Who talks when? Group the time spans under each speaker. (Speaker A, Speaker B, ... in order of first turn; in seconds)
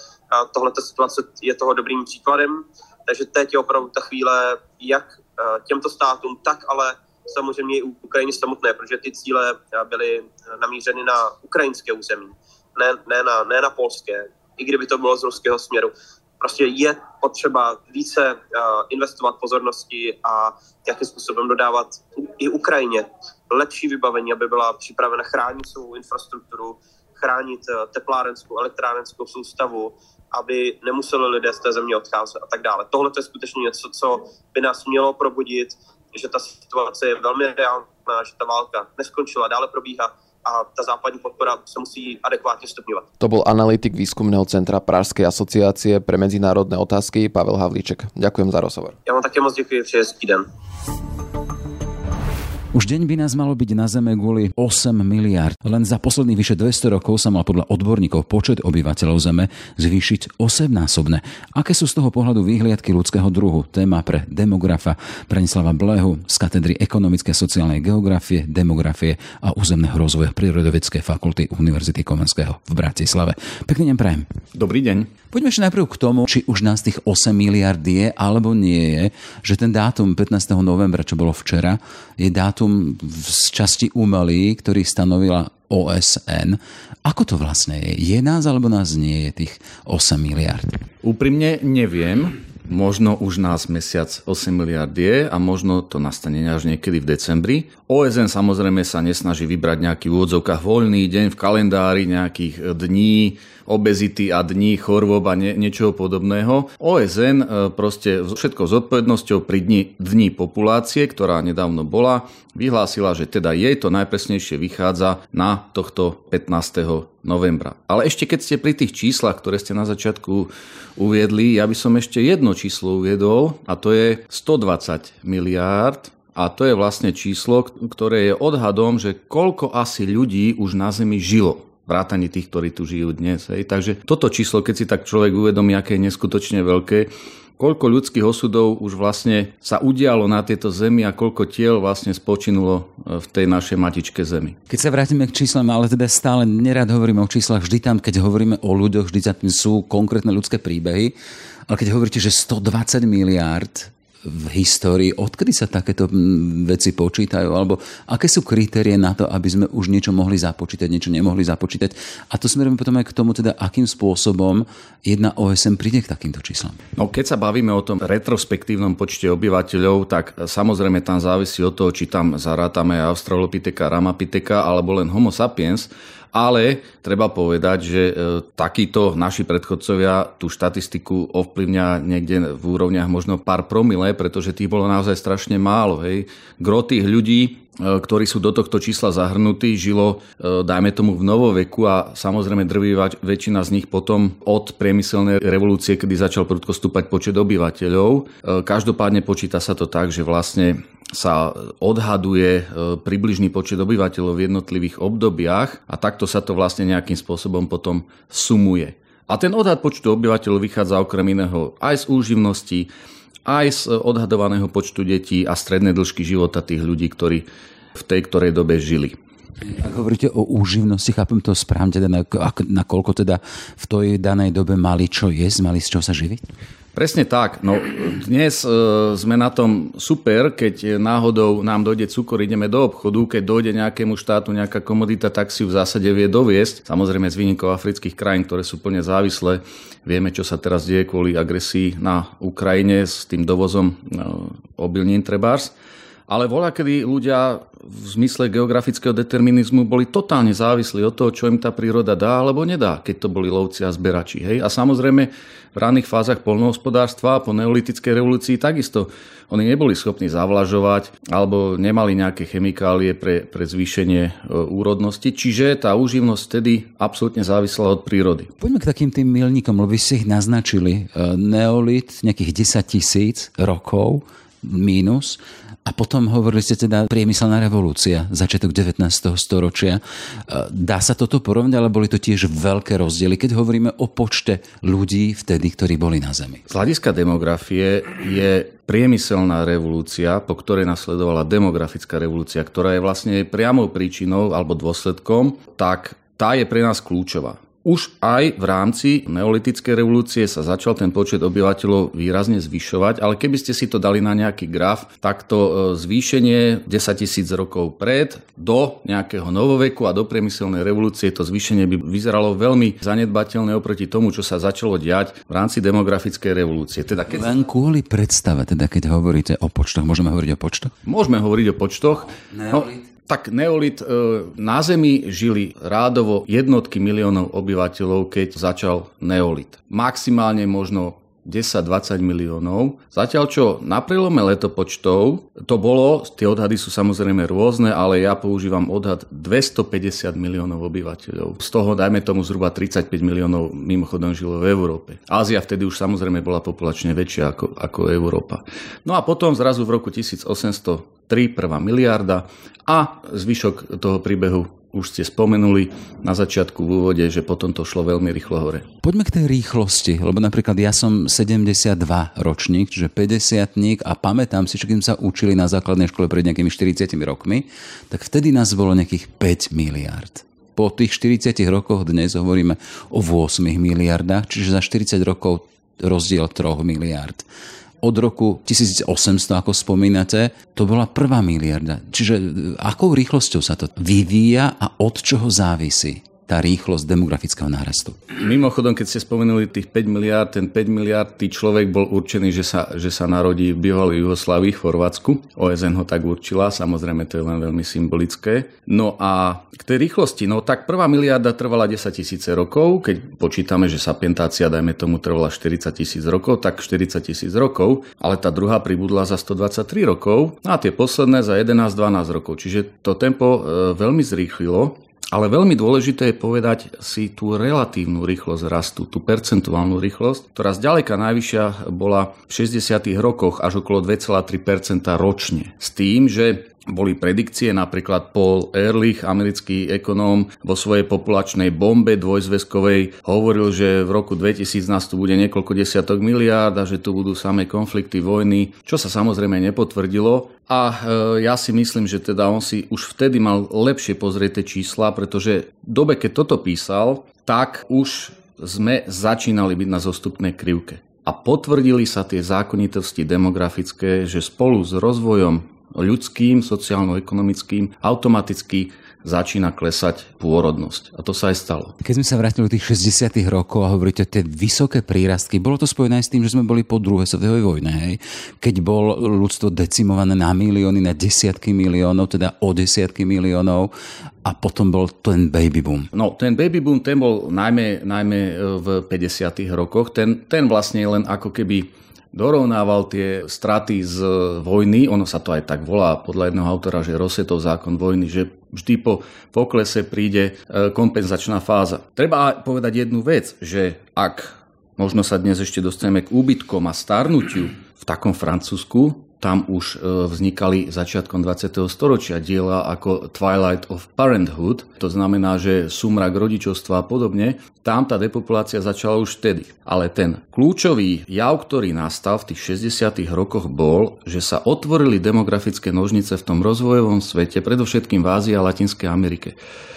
Speaker A: 0.3-43.1, 49.0-50.5
Speaker B: 43.2-49.0
Speaker C: 52.7-74.3, 75.3-90.8, 144.7-151.1, 151.7-166.8, 219.7-226.4, 268.6-286.6, 317.3-320.9, 322.5-322.9, 359.0-377.4, 378.0-388.2, 462.0-473.9, 474.4-476.1
Speaker D: 74.5-75.1, 91.0-144.6, 166.9-212.9, 213.4-219.2, 226.9-245.7, 246.3-268.5, 286.7-317.5, 321.0-358.9, 388.3-461.9, 476.1-519.6